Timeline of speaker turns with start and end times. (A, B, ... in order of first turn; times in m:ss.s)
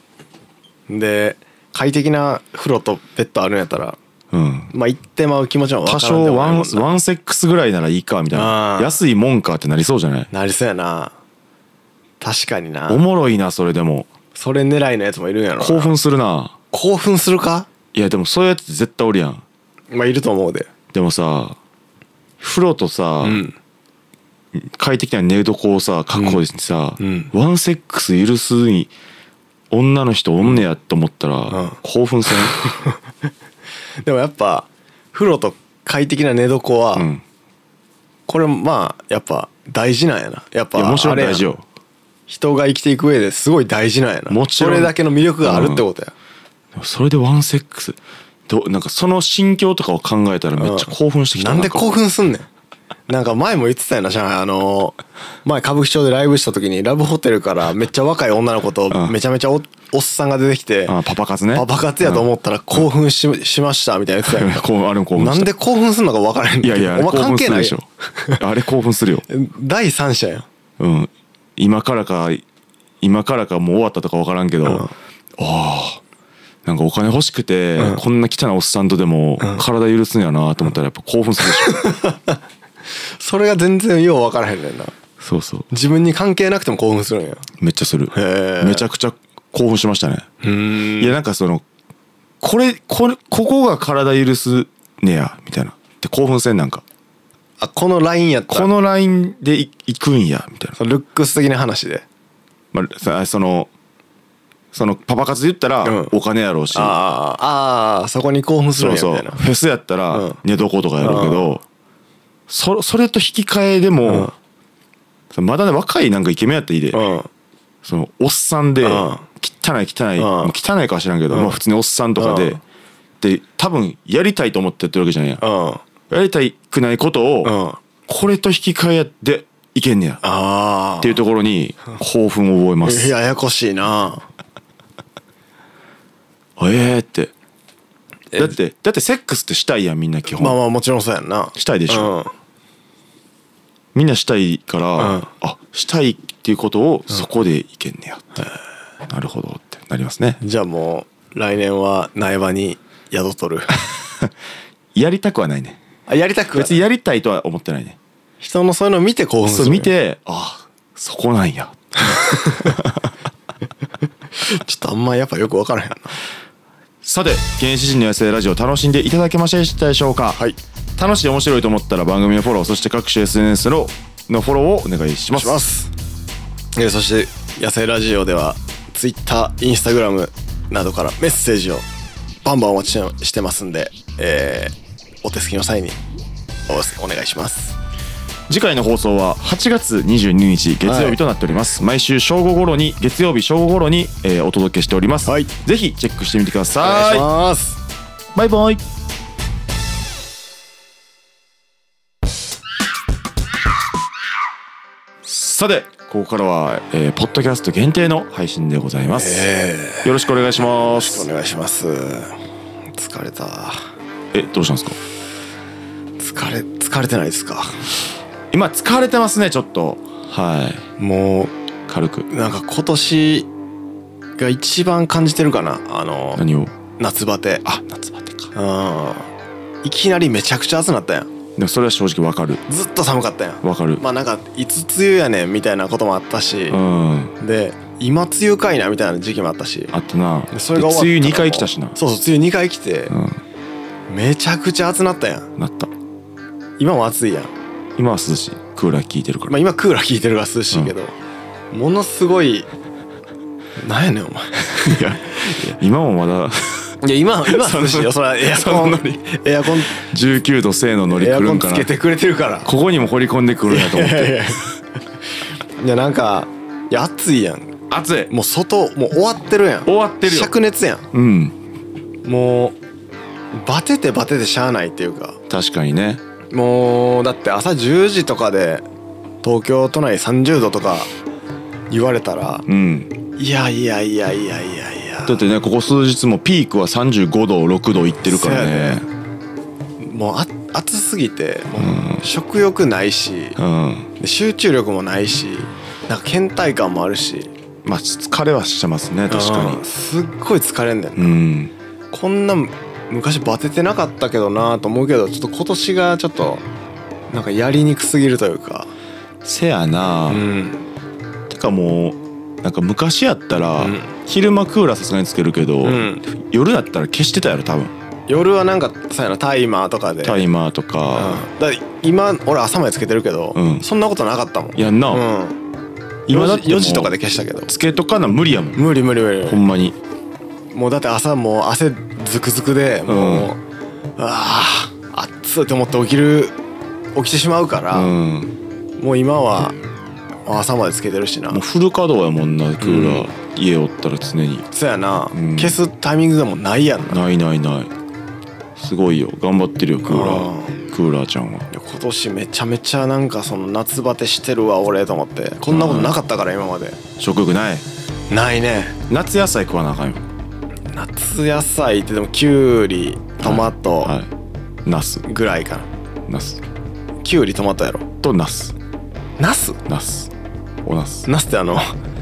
0:00.9-0:04.0 A
0:04.3-0:04.7 B
0:04.7-0:06.9 A
0:05.8-0:10.3 B
0:08.3-0:09.0 A
0:10.3-0:11.1 A
0:12.2-0:13.0 A
0:12.9-0:14.1 B
0:14.3-0:15.9 A
0:15.6-0:16.6 B
0:16.7-0:17.7 A
0:17.9-0:19.4 B
0:19.9-0:20.7 A
0:20.9-0:21.6 B
0:22.4-0:23.4 B
0:23.2-0:23.5 A
0:24.5-0:28.9 B
0:26.1-0:26.4 A
0:27.0-0:27.3 A
0:29.7-0:32.6 B
0:31.5-0:31.8 A
0:32.3-0:33.0 A
0:34.0-0:37.1 A
0:36.9-0:37.2 B
0:38.3-0:41.5 A
0:40.7-0:41.6 B
0:42.3-0:46.1 A
0:44.3-0:45.8 B
0:46.7-0:52.0 B
0:50.6-0:52.5 A
0:53.1-1:01.0 A
1:00.9-1:02.2 B
1:01.5-1:08.4 A
1:04.2-1:05.5 B
1:06.6-1:09.2 B
1:09.3-1:10.5 A
1:10.8-1:12.4 B
1:13.0-1:16.0 B
1:14.6-1:14.9 A
1:16.6-1:21.8 B
1:21.5-1:22.4 A
1:23.2-1:24.9 A
1:25.2-1:25.7 B
1:25.7-1:27.4 A
1:27.6-1:30.3 B
1:28.1-1:28.8 A
1:30.4-1:31.1 A
1:31.0-1:31.6 B
1:32.4-1:36.8 B
1:37.6-1:38.7 A
1:38.5-1:40.8 B
1:40.8-1:42.0 A
1:42.7-1:43.7 B
1:44.7-1:47.0 B
1:45.8-1:46.1 A
1:46.7-1:49.4 A
1:48.8-1:51.6 B
1:50.1-1:50.4 A
1:51.0-1:51.6 A
1:52.5-1:54.3 B
1:54.1-1:54.3 A
1:55.3-1:57.0 B
1:56.9-1:57.3 A
1:57.8-2:02.6 B
1:58.8-1:59.2 A
2:00.2-2:00.5 A
2:01.3-2:01.6 A
2:02.2-2:02.6 A
2:03.2-2:05.4 B
2:05.4-2:05.8 A
2:06.1-2:07.5 B
2:07.4-2:07.8 A
2:08.1-2:10.2 B
2:10.2-2:11.2 A
2:11.0-2:13.1 B
2:12.8-2:14.2 A
2:16.6-2:17.3 B
2:18.4-2:20.6 B
2:20.4-2:22.3 A
2:21.5-2:22.1 B
2:23.9-2:28.4 B
2:25.0-2:25.3 A
2:29.1-2:30.4 B
2:30.4-2:33.7 A
2:34.9-2:35.8 B
2:36.1-2:36.8 A
2:36.5-2:38.0 B
2:38.4-2:39.9 A
2:39.4-2:43.1 B
2:42.1-2:42.8 A
2:44.4-2:46.2 A
2:47.0-2:50.4 B
2:51.0-2:55.6 B
2:55.3-2:55.9 A
2:56.8-3:01.8 A
3:02.4-3:06.0 A
3:06.7-3:07.8 A
3:08.5-3:17.3 B
3:10.8-3:11.2 A
3:15.2-3:15.5 A
3:16.8-3:17.8 A
3:18.3-3:18.8 B
3:25.2-3:29.5 B
3:29.1-3:30.1 A
3:30.0-3:31.3 B
3:30.8-3:32.4 A
3:32.9-3:33.9 A
3:34.3-3:35.0 B
3:36.2-3:37.8 A
3:38.5-3:40.9 B
3:41.0-3:41.5 A
3:41.9-3:42.3 B
3:42.3-3:43.5 A
3:44.4-3:46.4 A
3:46.3-3:46.7 B
3:47.0-3:47.6 A
3:47.6-3:48.5 B
3:48.5-3:49.3 A
3:49.8-3:51.3 A
3:51.6-3:52.6 B
3:52.7-3:56.8 A
3:53.6-3:54.0 B
3:56.7-3:57.3 B
3:57.4-3:59.9 A
3:59.9-4:02.0 B
4:00.5-4:03.1 A
4:03.1-4:03.4 B
4:04.1-4:05.5 A
4:05.6-4:05.9 B
4:06.8-4:07.5 A
4:08.0-4:09.6 B
4:09.5-4:11.2 A
4:11.7-4:12.7 A
4:13.8-4:15.6 A
4:14.8-4:16.9 B
4:17.0-4:20.0 A
4:17.4-4:19.0 B
4:19.9-4:21.9 B
4:21.1-4:22.7 A
4:22.6-4:24.5 B
4:23.7-4:24.7 A
4:25.8-4:27.8 A
4:27.9-4:28.3 B
4:28.3-4:31.1 A
4:29.8-4:30.5 B
4:31.1-4:31.6 B
4:32.2-4:32.8 A
4:33.5-4:35.4 A
4:35.5-4:36.2 B
4:36.5-4:38.8 A
4:39.4-4:41.1 A
4:41.9-4:42.6 A
4:42.7-4:43.1 B
4:43.4-4:45.4 A
4:45.2-4:49.0 B
4:48.2-4:49.0 A
4:50.0-4:53.6 A
4:51.8-4:52.2 B
4:53.6-4:54.1 B
4:54.2-4:57.5 A
4:57.8-4:59.8 B
4:59.3-5:01.4 A
5:01.2-5:01.7 B
5:02.1-5:06.6 A
5:07.3-5:08.9 A
5:09.4-5:10.4 B
5:10.3-5:10.8 A
5:11.5-5:17.9 B
5:13.8-5:14.1 A
5:15.8-5:16.2 A
5:18.3-5:20.5 A
5:20.2-5:21.4 B
5:21.1-5:25.6 A
5:23.5-5:23.8 B
5:24.8-5:25.2 B
5:26.3-5:27.7 A
5:26.3-5:27.1 B
5:27.7-5:28.9 B
5:28.8-5:29.6 A
5:29.4-5:30.0 B
5:30.7-5:33.6 A
5:33.1-5:33.5 B
5:34.2-5:36.5 A
5:37.1-5:38.1 A
5:37.9-5:38.5 B
5:39.0-5:39.8 A
5:40.4-5:41.6 A
5:41.5-5:44.7 B
5:42.8-5:43.3 A
5:44.7-5:47.2 A
5:45.3-5:45.8 B
5:47.1-5:47.9 B
5:48.8-5:51.7 B
5:50.0-5:50.8 A
5:51.7-5:57.0 A
5:55.7-5:56.2 B
5:57.2-5:57.8 B
5:58.3-5:59.0 A
5:59.1-6:00.2 B
6:00.9-6:04.1 A
6:03.4-6:04.3 B
6:04.8-6:05.2 B
6:05.2-6:05.9 A
6:06.3-6:06.6 B
6:07.2-6:08.0 A
6:08.2-6:08.7 B
6:09.4-6:09.8 A
6:09.9-6:10.3 B
6:10.8-6:11.3 B
6:11.2-6:11.9 A